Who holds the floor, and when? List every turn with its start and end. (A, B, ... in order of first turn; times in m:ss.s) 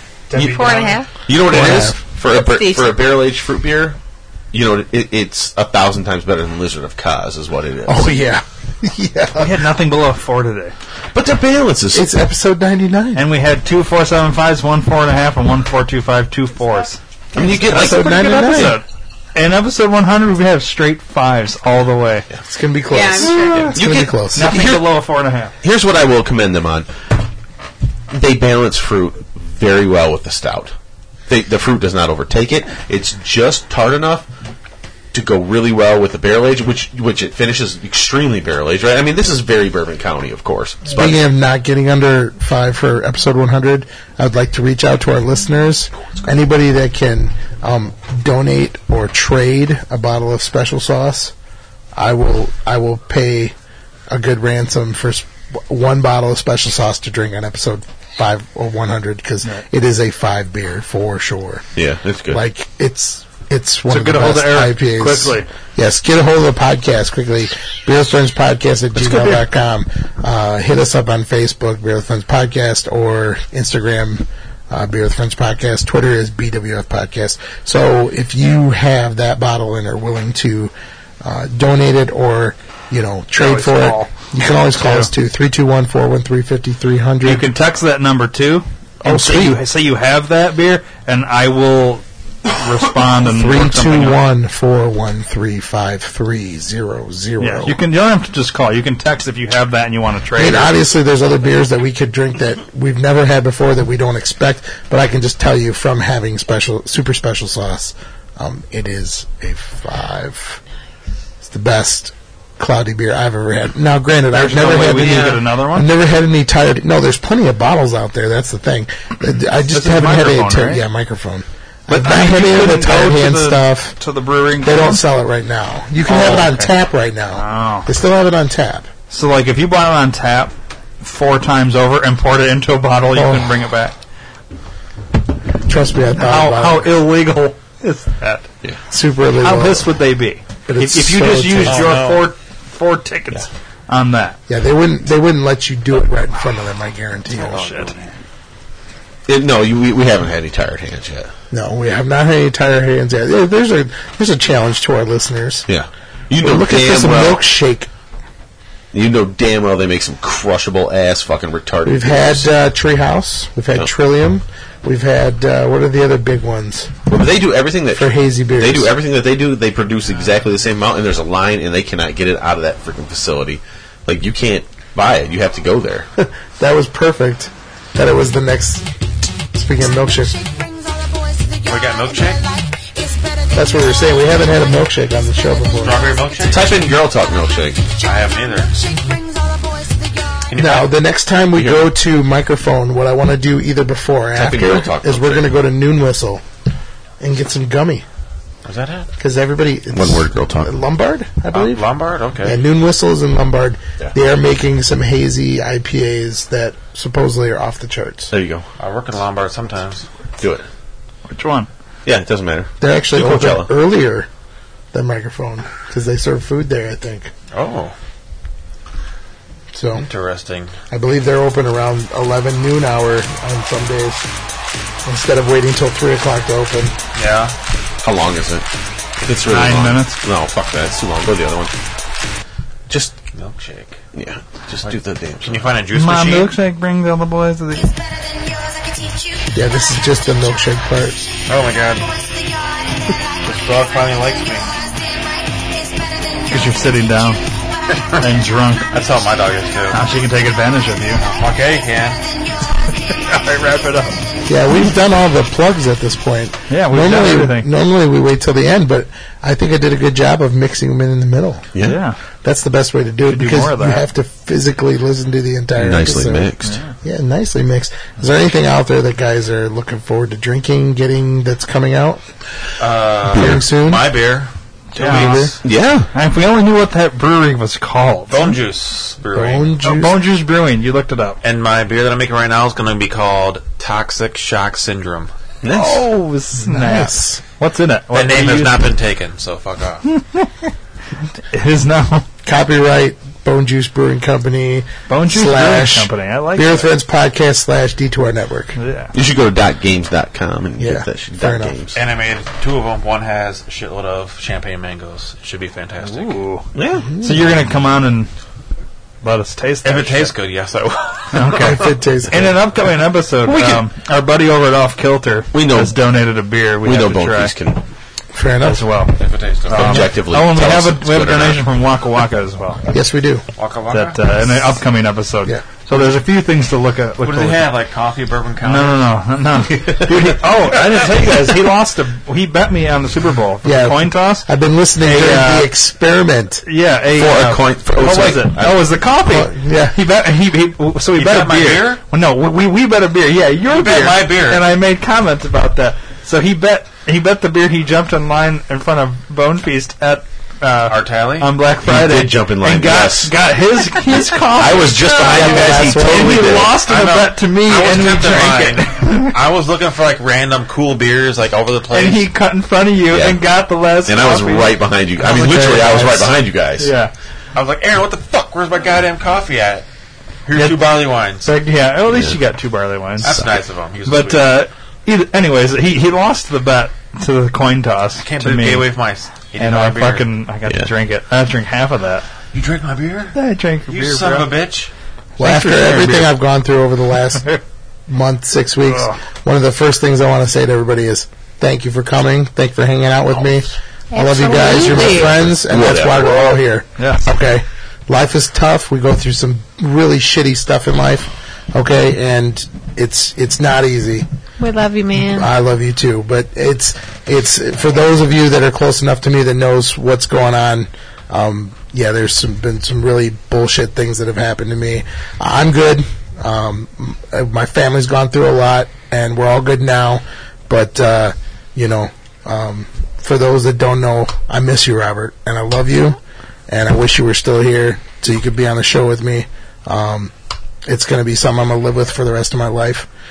0:00.3-0:01.0 A
0:00.3-0:00.6 B
0:00.4-0:01.1 C
0:01.3-0:04.0 B
0:01.5-0:02.0 D
0:02.2-0:02.9 C
0:04.5-0:08.2 B
0:07.9-0:09.6 D
0:09.4-0:10.8 A
0:11.1-0:12.1 B
0:11.9-0:13.2 D
0:13.2-0:22.3 A
0:17.3-0:18.8 B
0:17.7-0:18.8 D
0:22.5-0:24.5 D
0:22.9-0:23.7 C
0:23.3-0:23.8 A
0:23.7-0:25.0 B
0:24.3-0:25.5 A
0:25.6-0:26.9 B
0:28.1-0:30.7 B
0:31.3-0:34.3 B
0:35.1-0:41.2 B
0:40.9-0:51.3 D
0:52.0-0:53.5 D
0:54.1-1:01.6 D
1:01.8-1:02.4 B
1:02.3-1:27.5 D
1:03.9-1:05.5 A
1:09.0-1:09.5 B
1:23.4-1:24.1 A
1:24.7-1:25.1 A
1:27.2-1:34.2 A
1:29.0-1:29.6 D
1:33.2-1:37.8 D
1:37.4-1:40.8 A
1:40.4-1:50.6 D
1:51.4-2:04.0 D
1:54.3-1:55.9 A
1:54.8-1:55.4 E
1:59.7-2:00.8 A
2:01.9-2:05.0 A
2:04.6-2:08.9 D
2:06.1-2:06.7 A
2:07.4-2:07.9 A
2:09.1-2:14.0 A
2:13.1-2:13.5 D
2:15.7-2:17.0 D
2:16.2-2:18.5 A
2:18.9-2:20.0 D
2:19.4-2:24.4 A
2:20.7-2:21.9 D
2:21.6-2:22.3 E
2:24.5-2:27.6 D
2:27.4-2:28.0 A
2:27.4-2:28.1 E
2:29.3-2:31.3 B
2:31.5-2:35.7 D
2:35.7-2:37.4 B
2:36.4-2:37.9 D
2:38.9-2:42.5 B
2:41.8-2:46.9 D
2:47.1-2:56.1 B
2:48.0-2:49.0 D
2:56.2-2:58.9 D
2:59.5-3:00.4 D
3:01.6-3:02.5 E
3:03.5-3:06.2 D
3:05.8-3:06.7 E
3:06.5-3:07.9 B
3:08.0-3:08.8 E
3:10.5-3:10.9 E
3:10.6-3:16.4 D
3:11.5-3:11.9 B
3:14.4-3:15.6 B
3:17.2-3:18.0 D
3:18.6-3:19.1 E
3:19.2-3:21.9 D
3:19.9-3:20.7 B
3:21.5-3:22.6 E
3:22.4-3:28.3 D
3:28.3-3:28.7 B
3:28.8-3:30.1 E
3:30.4-3:30.6 B
3:31.3-3:31.7 A
3:32.0-3:33.7 B
3:32.8-3:34.3 D
3:34.9-3:37.3 D
3:37.5-3:37.9 E
3:39.7-3:40.0 D
3:40.0-3:40.7 E
3:40.9-3:44.3 D
3:45.0-3:47.0 D
3:47.2-3:47.5 E
3:48.0-3:48.7 B
3:49.2-3:51.7 B
3:49.5-3:50.2 A
3:52.9-3:53.2 B
3:53.3-3:54.0 E
3:54.1-3:55.7 B
3:54.8-3:56.6 E
3:55.9-3:58.0 A
3:59.5-4:01.3 D
4:01.5-4:02.2 E
4:03.4-4:04.7 E
4:06.5-4:07.4 A
4:08.0-4:08.2 E
4:08.2-4:08.9 A
4:08.9-4:10.0 E
4:09.9-4:11.2 A
4:11.2-4:12.2 E
4:13.1-4:14.2 A
4:14.5-4:21.6 D
4:16.7-4:17.7 A
4:21.7-4:22.0 B
4:21.8-4:22.2 A
4:22.4-4:32.2 D
4:23.3-4:24.0 A
4:25.8-4:26.8 B
4:26.6-4:26.9 A
4:32.8-4:35.6 E
4:33.4-4:34.1 D
4:34.9-4:35.6 A
4:35.0-4:35.5 D
4:35.6-4:36.1 B
4:36.1-4:38.6 A
4:38.3-4:39.8 E
4:39.3-4:40.2 D
4:39.8-4:41.4 A
4:41.4-4:45.3 E
4:45.6-4:46.1 B
4:45.7-4:48.9 A
4:46.6-4:47.4 D
4:48.1-4:50.0 E
4:50.1-4:50.7 A
4:51.5-4:52.3 A
4:52.5-4:58.8 D
4:55.1-4:56.9 A
4:58.8-4:59.1 A
4:59.1-5:02.0 B
5:00.8-5:01.8 D
5:01.9-5:06.4 E
5:06.0-5:06.7 A
5:06.8-5:07.1 B
5:07.1-5:07.5 D
5:07.2-5:08.3 A
5:09.2-5:10.3 A
5:09.8-5:11.8 E
5:11.3-5:17.5 A
5:11.6-5:12.6 D
5:13.4-5:13.9 B
5:15.5-5:16.0 B
5:16.8-5:17.8 B
5:18.3-5:18.9 D
5:18.6-5:22.8 A
5:19.2-5:20.0 E
5:19.7-5:21.7 B
5:22.9-5:23.4 D
5:23.6-5:24.8 E
5:23.9-5:27.8 A
5:27.2-5:29.1 E
5:28.6-5:34.5 A
5:29.8-5:30.2 B
5:30.7-5:31.2 E
5:33.6-5:36.6 D
5:35.0-5:35.7 A
5:36.7-5:59.4 A
5:37.1-5:38.9 B
5:39.3-5:40.0 D
5:41.2-5:42.0 E
5:43.6-5:44.6 E
5:50.9-5:51.5 E
5:51.8-5:53.3 B
5:54.6-5:56.8 B
5:55.2-5:56.7 D
5:56.8-6:02.3 E
6:01.9-6:07.1 A
6:03.1-6:03.4 B
6:04.0-6:06.9 B
6:07.6-6:09.9 E
6:10.5-6:11.5 E
6:10.5-6:13.4 A
6:12.1-6:12.4 B
6:13.2-6:14.6 E
6:13.2-6:13.6 B
6:14.0-6:18.9 A
6:18.2-6:20.3 E
6:19.6-6:22.3 A
6:22.5-6:23.4 E
6:23.3-6:24.5 A
6:23.9-6:24.9 E
6:25.4-6:27.5 D
6:25.4-6:26.3 A
6:28.1-6:44.3 D
6:28.9-6:29.2 A
6:34.1-6:35.3 C
6:34.7-6:36.7 B
6:37.0-6:37.3 A
6:44.6-6:45.5 C
6:45.3-7:06.2 D
7:06.7-7:10.3 D
7:10.9-7:13.1 D